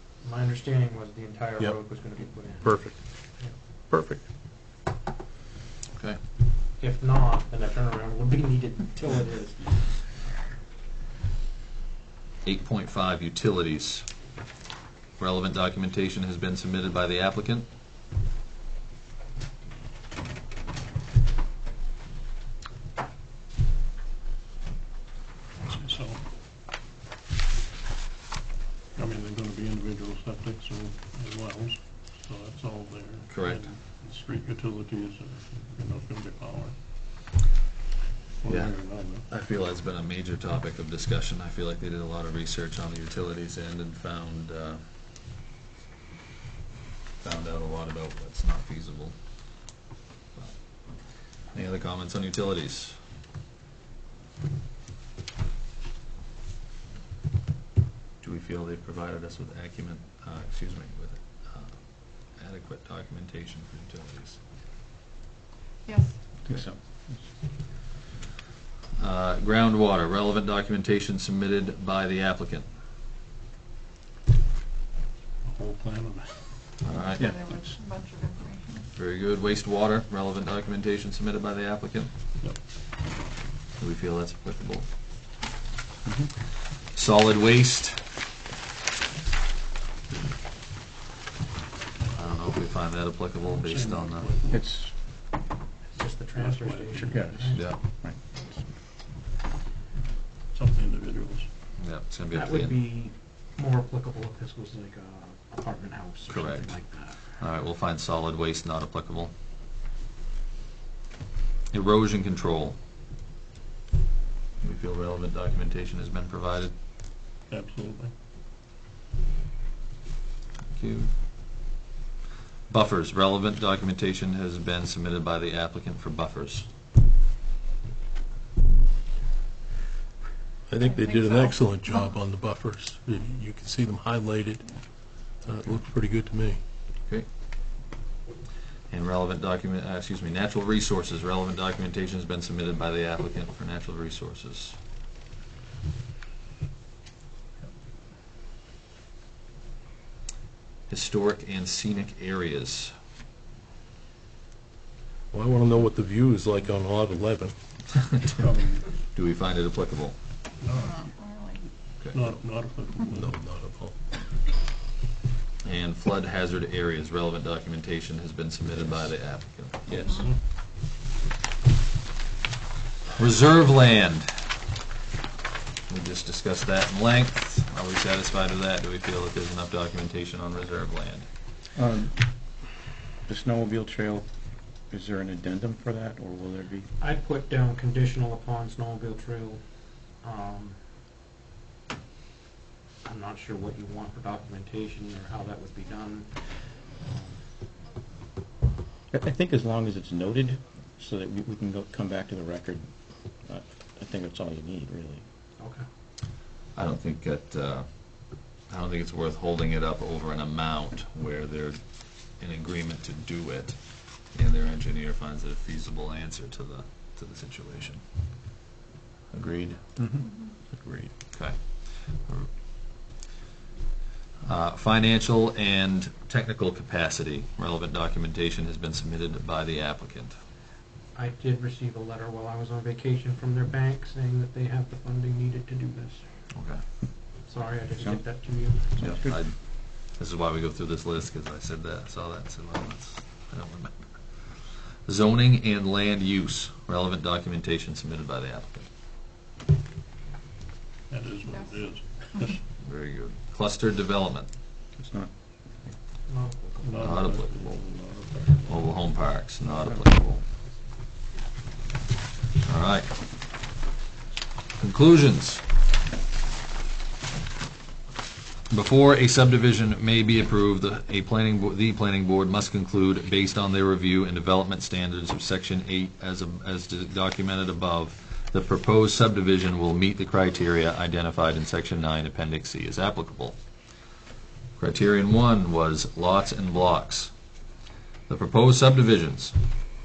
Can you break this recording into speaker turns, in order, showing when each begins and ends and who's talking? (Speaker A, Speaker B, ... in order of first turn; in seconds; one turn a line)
Speaker A: 0.2-2.8
Speaker B: 2.6-3.0
Speaker B: 3.9-4.2
Speaker A: 6.8-10.3
Speaker C: 12.4-14.1
Speaker C: 15.2-17.7
Speaker D: 25.6-26.2
Speaker D: 28.9-36.7
Speaker C: 33.3-33.7
Speaker D: 38.4-39.2
Speaker C: 38.5-44.8
Speaker C: 47.2-49.1
Speaker C: 51.5-53.0
Speaker C: 58.2-61.8
Speaker C: 62.3-64.4
Speaker E: 65.8-66.1
Speaker F: 66.4-67.2
Speaker C: 69.0-72.7
Speaker D: 75.4-76.3
Speaker C: 76.8-77.2
Speaker E: 77.2-78.8
Speaker C: 78.9-82.1
Speaker C: 83.8-84.8
Speaker F: 86.0-86.3
Speaker C: 86.9-88.0
Speaker C: 92.1-94.3
Speaker D: 93.4-94.7
Speaker F: 94.5-94.9
Speaker A: 95.9-97.6
Speaker D: 96.3-97.2
Speaker F: 96.9-98.6
Speaker D: 100.5-101.5
Speaker C: 101.8-102.8
Speaker A: 102.3-107.2
Speaker C: 106.3-106.7
Speaker C: 107.4-109.3
Speaker C: 111.7-112.8
Speaker C: 114.6-116.7
Speaker D: 117.5-118.1
Speaker C: 120.7-121.1
Speaker C: 122.7-126.7
Speaker B: 130.7-134.7
Speaker E: 130.8-132.2
Speaker B: 135.4-136.6
Speaker C: 138.9-144.8
Speaker C: 150.9-152.9
Speaker B: 155.3-157.6
Speaker C: 158.0-158.4
Speaker D: 158.3-159.0
Speaker C: 159.1-160.2
Speaker D: 160.6-161.1
Speaker E: 161.1-161.6
Speaker C: 162.0-162.3
Speaker D: 162.1-163.4
Speaker B: 163.2-164.0
Speaker C: 165.6-170.3
Speaker D: 170.1-170.4
Speaker C: 173.2-174.3
Speaker C: 175.9-181.3
Speaker F: 181.8-182.2
Speaker F: 183.2-184.2
Speaker F: 184.9-186.9
Speaker A: 187.0-189.6
Speaker A: 190.2-190.8
Speaker A: 193.0-197.4
Speaker F: 199.1-202.8
Speaker F: 203.5-205.2
Speaker A: 205.6-205.8
Speaker C: 206.8-207.9
Speaker C: 208.7-211.8
Speaker C: 212.3-213.8
Speaker C: 214.3-218.0
Speaker F: 219.3-221.1
Speaker C: 221.3-222.5
Speaker C: 224.4-230.4
Speaker A: 231.2-236.3
Speaker C: 236.5-236.8
Speaker A: 237.5-239.2
Speaker F: 239.0-239.3
Speaker C: 239.0-248.9
Speaker D: 251.1-252.6
Speaker C: 252.8-254.5
Speaker F: 255.0-255.3
Speaker A: 256.3-256.9
Speaker D: 256.8-259.0
Speaker C: 257.0-257.8
Speaker C: 258.7-260.4
Speaker C: 262.6-263.1
Speaker C: 264.8-265.6
Speaker C: 268.7-283.6
Speaker C: 284.8-287.3
Speaker C: 288.3-289.5